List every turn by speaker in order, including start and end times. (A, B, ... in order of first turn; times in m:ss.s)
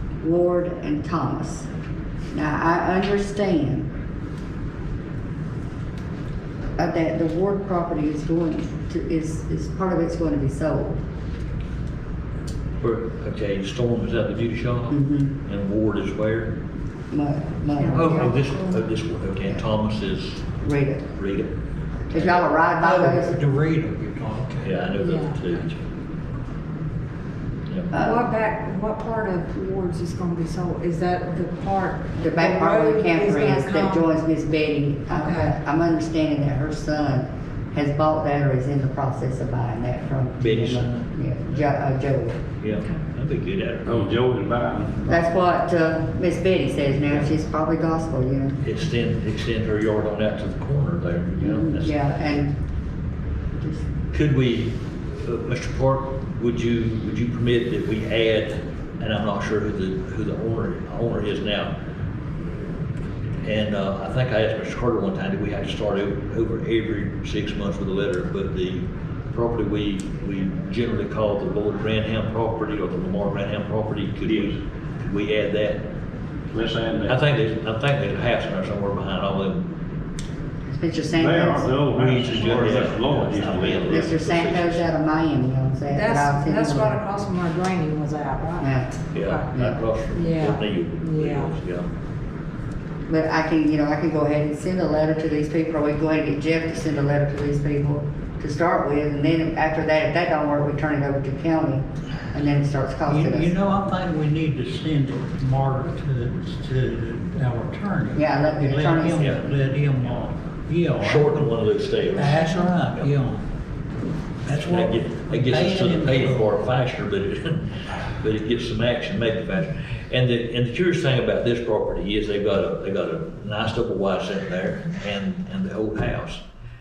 0:00.2-0:01.7 A
0:02.3-0:03.9 A
0:06.8-0:11.0 A
0:12.8-0:16.6 B
0:14.9-0:15.4 A
0:17.1-0:18.4 A
0:17.8-0:18.8 C
0:17.9-0:20.6 B
0:20.6-0:21.1 A
0:21.1-0:21.6 B
0:22.1-0:23.4 A
0:22.1-0:22.5 B
0:22.8-0:24.8 D
0:24.6-0:25.8 B
0:25.0-0:25.6 C
0:27.9-0:34.1 C
0:27.9-0:28.3 A
0:32.2-0:42.4 A
0:35.1-0:35.5 C
0:40.4-0:41.7 B
0:42.6-0:44.2 B
0:43.8-0:45.0 E
0:45.1-0:48.6 A
0:48.6-0:52.0 B
0:51.4-0:52.6 A
0:53.6-0:53.9 A
0:54.1-1:01.7 B
1:03.4-1:15.9 B
1:14.2-1:14.6 E
1:16.5-1:17.2 E
1:17.1-1:19.7 B
1:20.7-1:21.8 A
1:21.2-1:24.3 E
1:21.9-1:24.9 B
1:23.8-1:27.0 A
1:25.9-1:29.5 C
1:28.6-1:28.9 A
1:29.1-1:31.9 B
1:30.1-1:31.5 C
1:33.1-1:43.5 A
1:43.1-1:51.5 D
1:48.2-1:49.4 A
1:51.0-1:53.1 B
1:52.1-1:53.5 D
1:54.5-1:56.5 D
1:54.6-2:06.4 B